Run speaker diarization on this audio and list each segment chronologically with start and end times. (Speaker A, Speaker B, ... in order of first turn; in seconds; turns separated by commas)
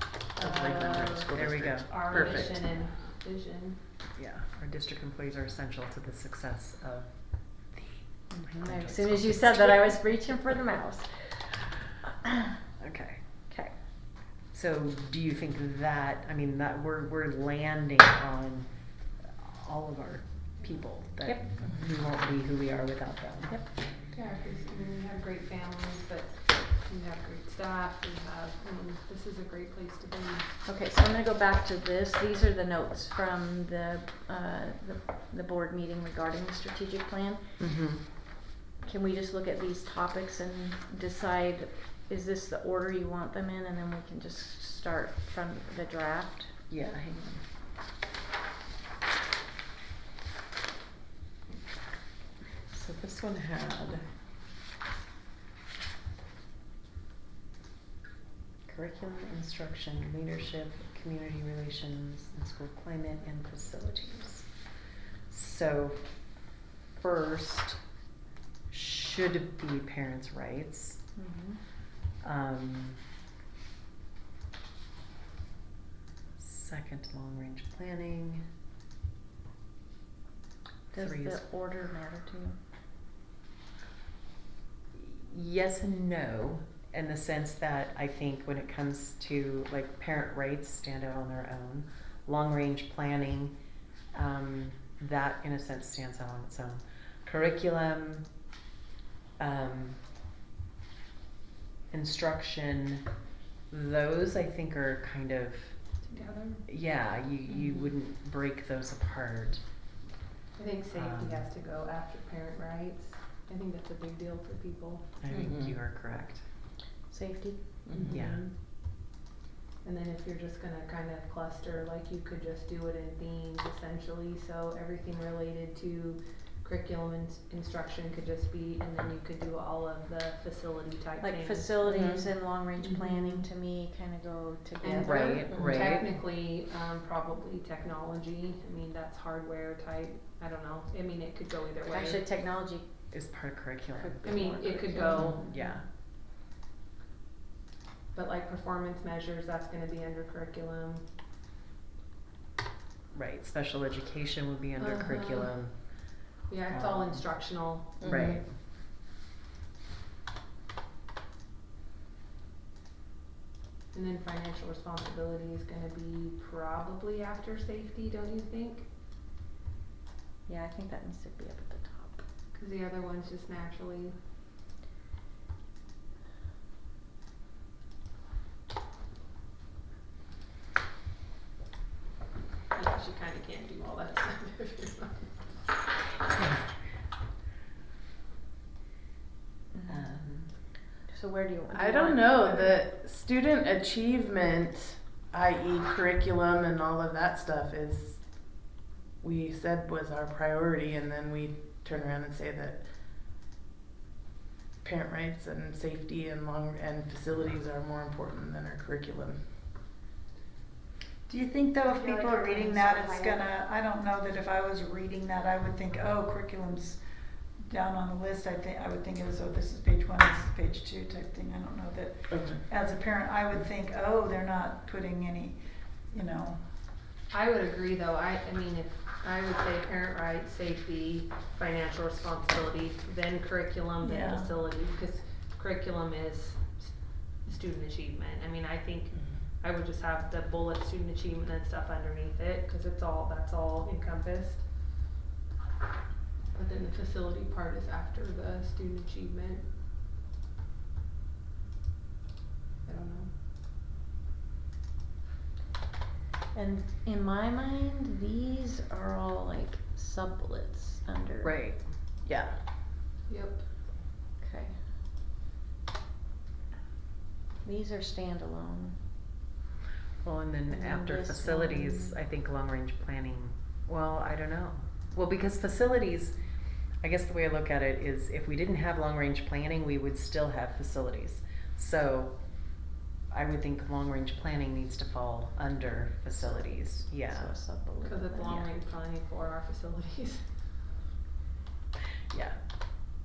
Speaker A: 0.3-1.3, Speaker B: 0.4-2.4, Speaker C: 1.3-2.6, Speaker A: 1.8-3.8, Speaker C: 4.2-7.1, Speaker C: 7.7-9.9, Speaker D: 8.3-11.3, Speaker D: 12.2-12.6, Speaker C: 12.8-13.2, Speaker C: 14.5-18.7, Speaker C: 19.4-23.6, Speaker D: 21.2-21.5, Speaker A: 24.1-30.5, Speaker D: 30.6-37.4, Speaker C: 37.6-38.0, Speaker D: 38.8-46.5, Speaker C: 46.7-47.4, Speaker C: 52.7-54.0, Speaker C: 58.7-64.5, Speaker C: 65.3-66.0, Speaker C: 67.0-67.8, Speaker C: 68.7-71.0, Speaker D: 71.2-71.6, Speaker C: 72.2-73.0, Speaker C: 76.4-78.4, Speaker D: 80.9-82.5, Speaker C: 80.9-81.4, Speaker C: 84.9-93.5, Speaker C: 94.1-98.2, Speaker C: 99.4-100.0, Speaker C: 101.9-103.0, Speaker C: 103.7-105.8, Speaker A: 106.0-106.7, Speaker C: 106.7-109.6, Speaker A: 110.5-115.1, Speaker C: 110.9-111.4, Speaker C: 115.2-116.4, Speaker B: 115.3-115.8, Speaker D: 117.1-117.6, Speaker B: 117.9-118.3, Speaker A: 117.9-118.6, Speaker C: 118.1-118.4, Speaker A: 119.8-132.2, Speaker D: 131.2-135.5, Speaker B: 131.9-132.2, Speaker A: 132.8-133.4, Speaker A: 134.8-142.2, Speaker C: 135.0-136.1, Speaker D: 141.8-142.9, Speaker C: 143.1-144.2, Speaker D: 144.0-145.8, Speaker A: 144.2-145.5, Speaker C: 145.1-145.8, Speaker A: 148.1-151.0, Speaker C: 153.1-155.8, Speaker A: 154.8-155.5, Speaker A: 156.5-158.2, Speaker C: 156.7-157.2, Speaker C: 158.0-158.5, Speaker B: 158.0-158.4, Speaker A: 163.9-168.9, Speaker D: 170.5-172.2, Speaker A: 172.5-174.2, Speaker A: 182.7-185.3, Speaker D: 189.8-190.0, Speaker C: 189.9-190.5, Speaker D: 191.1-192.7, Speaker B: 191.7-198.2, Speaker B: 199.2-202.8, Speaker B: 204.8-209.4, Speaker E: 211.3-217.0, Speaker D: 211.8-213.4, Speaker E: 217.6-226.6, Speaker B: 222.3-222.6, Speaker A: 227.3-236.9, Speaker E: 234.0-234.5, Speaker A: 237.4-244.6, Speaker A: 246.5-249.7, Speaker A: 252.8-253.3, Speaker D: 256.5-261.6, Speaker C: 261.4-261.8, Speaker B: 262.2-262.6, Speaker A: 263.3-263.6, Speaker D: 264.4-264.8, Speaker D: 267.6-269.0, Speaker C: 270.2-276.3, Speaker D: 270.7-272.1, Speaker C: 277.0-282.4, Speaker C: 283.3-287.5, Speaker D: 287.2-288.6, Speaker A: 288.0-290.5, Speaker C: 288.4-288.7, Speaker C: 292.3-292.6